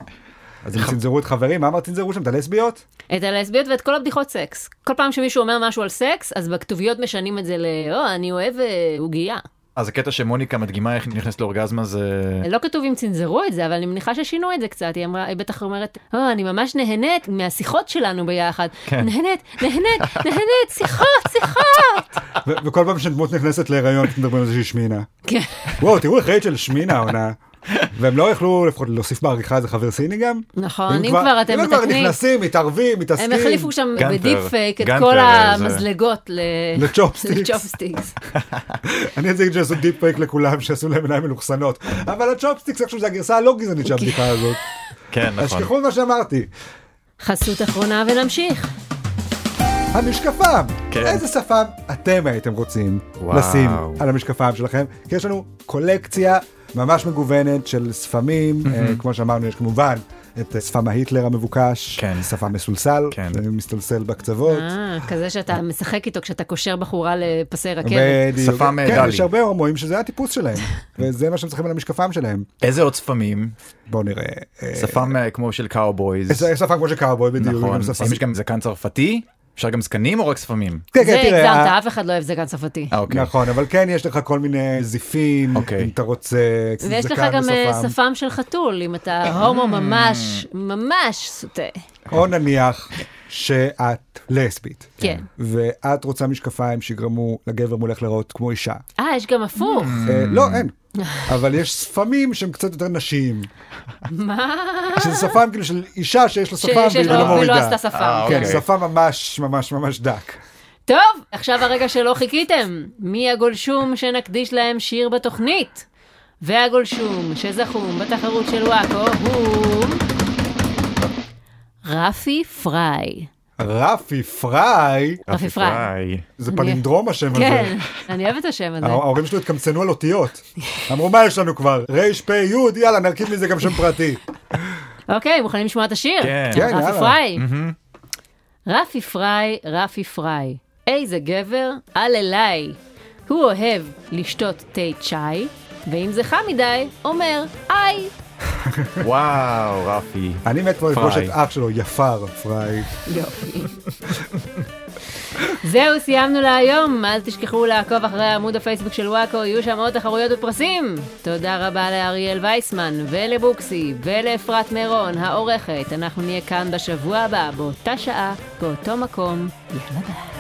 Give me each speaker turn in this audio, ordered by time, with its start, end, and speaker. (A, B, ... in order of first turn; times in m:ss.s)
0:00.6-0:02.8 A
0:03.1-0:09.4 B
0:09.8-0:12.5 C
0:12.4-0:22.2 B
0:22.4-0:25.1 A
0:25.3-0:25.7 B
0:25.8-0:27.4 A
0:27.9-0:33.7 A
0:30.6-0:32.2 B
0:33.2-0:38.2 B
0:34.0-0:35.8 C
0:36.8-0:37.7 A
0:38.3-0:38.8 C
0:38.8-0:44.6 A
0:43.9-0:44.3 B
0:45.1-0:45.7 C
0:45.4-0:46.5 A
0:47.2-0:48.7 B
0:49.9-1:04.7 A
0:50.9-0:51.2 C
0:53.2-0:54.0 C
0:58.6-0:59.0 C
1:02.0-1:02.3 C
1:03.1-1:03.4 C
1:04.5-1:08.3 B
1:07.8-1:12.5 A
1:08.4-1:09.3 C
1:12.6-1:13.5 C
1:13.9-1:15.2 A
1:14.8-1:16.5 C
1:16.3-1:18.2 A
1:17.4-1:20.9 C
1:20.9-1:21.8 A
1:21.0-1:22.9 B
1:22.9-1:23.3 C
1:23.1-1:28.0 A
1:25.6-1:25.9 C
1:26.8-1:31.8 B
1:29.4-1:30.4 C
1:32.1-1:38.8 A
1:35.0-1:35.3 B
1:39.0-1:40.0 B
1:39.7-1:40.7 C
1:40.0-1:40.7 A
1:41.0-1:41.3 B
1:41.3-1:43.5 A
1:44.1-1:45.4 B
1:45.0-1:50.4 A
1:46.6-1:48.6 B
1:47.0-1:48.6 C
1:50.9-1:55.8 B
1:56.4-2:00.0 B
2:01.8-2:03.3 B
2:03.6-2:05.2 A
2:05.3-2:06.3 C
2:05.3-2:05.9 B
2:06.4-2:07.8 A
2:06.5-2:06.8 B
2:07.3-2:09.0 B
2:08.8-2:14.7 A
2:15.1-2:17.4 B
2:16.2-2:16.7 C
2:16.5-2:17.2 A
2:17.4-2:17.8 C
2:18.7-2:28.1 B
2:28.6-2:29.0 A
2:29.0-2:31.3 C
2:30.4-2:32.9 A
2:33.1-2:33.8 B
2:35.4-2:50.2 B